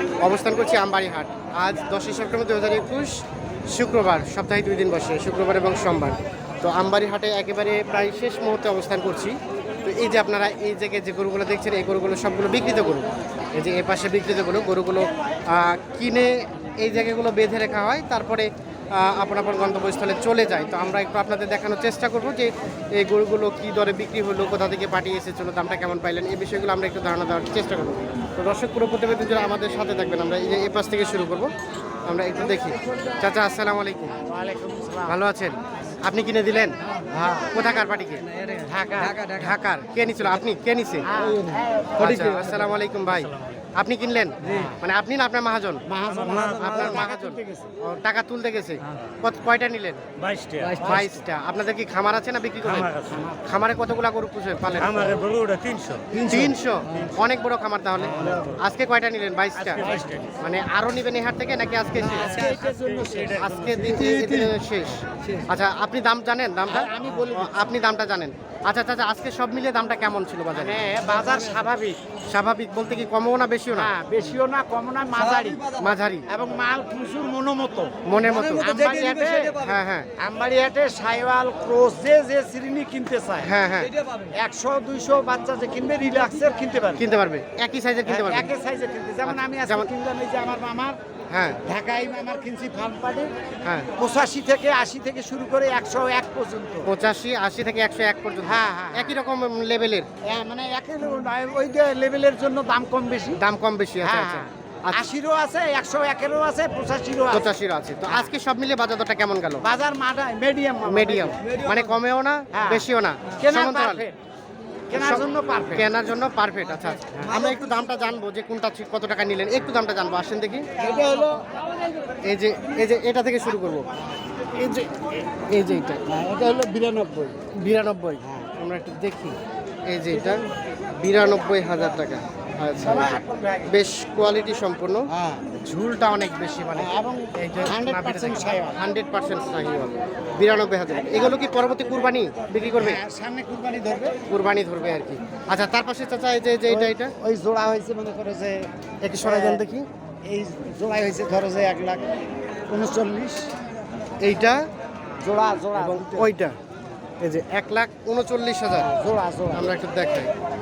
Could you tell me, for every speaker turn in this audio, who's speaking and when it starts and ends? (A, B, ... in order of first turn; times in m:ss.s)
0:00.2-0:31.5 A
0:32.1-0:34.2 A
0:34.2-0:35.2 B
0:35.1-0:36.8 A
0:37.1-0:37.5 B
0:37.5-0:38.2 A
0:38.6-0:39.3 B
0:39.1-0:39.5 C
0:39.3-0:41.1 A
0:41.1-0:42.4 B
0:42.0-0:45.8 A
0:42.2-0:42.6 C
0:44.4-0:44.8 B
0:45.9-0:47.8 B
0:46.2-0:46.8 C
0:46.6-0:50.1 A
0:50.2-0:50.9 C
0:50.8-0:51.2 B
0:50.8-0:55.2 A
0:52.8-0:53.1 C
0:53.1-0:53.4 B
0:54.8-0:56.1 C
0:56.1-0:56.6 B
0:56.3-0:59.9 A
0:58.0-0:58.6 B
0:59.8-1:00.1 C
0:59.8-1:00.3 B
1:00.4-1:02.5 A
1:02.0-1:03.7 B
1:03.0-1:04.0 C
1:03.4-1:10.8 A
1:06.7-1:07.7 B
1:10.5-1:12.0 B
1:12.3-1:13.9 A
1:13.7-1:15.6 B
1:15.8-1:16.3 A
1:16.3-1:18.0 B
1:18.0-1:18.7 A
1:18.4-1:19.7 C
1:18.5-1:19.6 B
1:19.6-1:20.1 A
1:20.2-1:23.5 B
1:23.4-1:23.9 A
1:24.3-1:27.0 B
1:27.0-1:28.5 A
1:28.1-1:31.0 B
1:29.3-1:29.9 A
1:31.3-1:31.6 A
1:31.6-1:33.3 B
1:33.6-1:33.9 A
1:34.0-1:36.9 B
1:36.9-1:40.1 A
1:38.4-1:39.2 B
1:40.3-1:43.4 B
1:43.4-1:45.0 A
1:44.0-1:47.5 B
1:47.3-1:49.6 A
1:48.1-1:48.3 B
1:49.6-1:51.6 B
1:50.8-1:54.1 A
1:52.5-1:54.2 B
1:54.9-1:55.9 B
1:54.9-2:00.7 A
2:00.8-2:01.5 B
2:02.2-2:03.9 A
2:04.6-2:05.0 B
2:05.5-2:06.0 A
2:06.1-2:07.4 B
2:07.6-2:09.4 A
2:08.2-2:08.5 B
2:09.9-2:10.4 A
2:11.0-2:15.1 A
2:12.8-2:13.7 B
2:15.1-2:15.5 B
2:15.6-2:23.0 A
2:16.8-2:18.8 B
2:22.8-2:24.2 B
2:24.3-2:27.1 A
2:26.7-2:28.7 B
2:29.0-2:29.9 A
2:29.2-2:29.6 B
2:30.3-2:32.0 B
2:32.7-2:33.5 B
2:34.2-2:34.6 A
2:35.2-2:36.3 B
2:35.8-2:36.6 A
2:37.2-2:38.9 A
2:38.8-2:39.7 B
2:39.5-2:40.3 A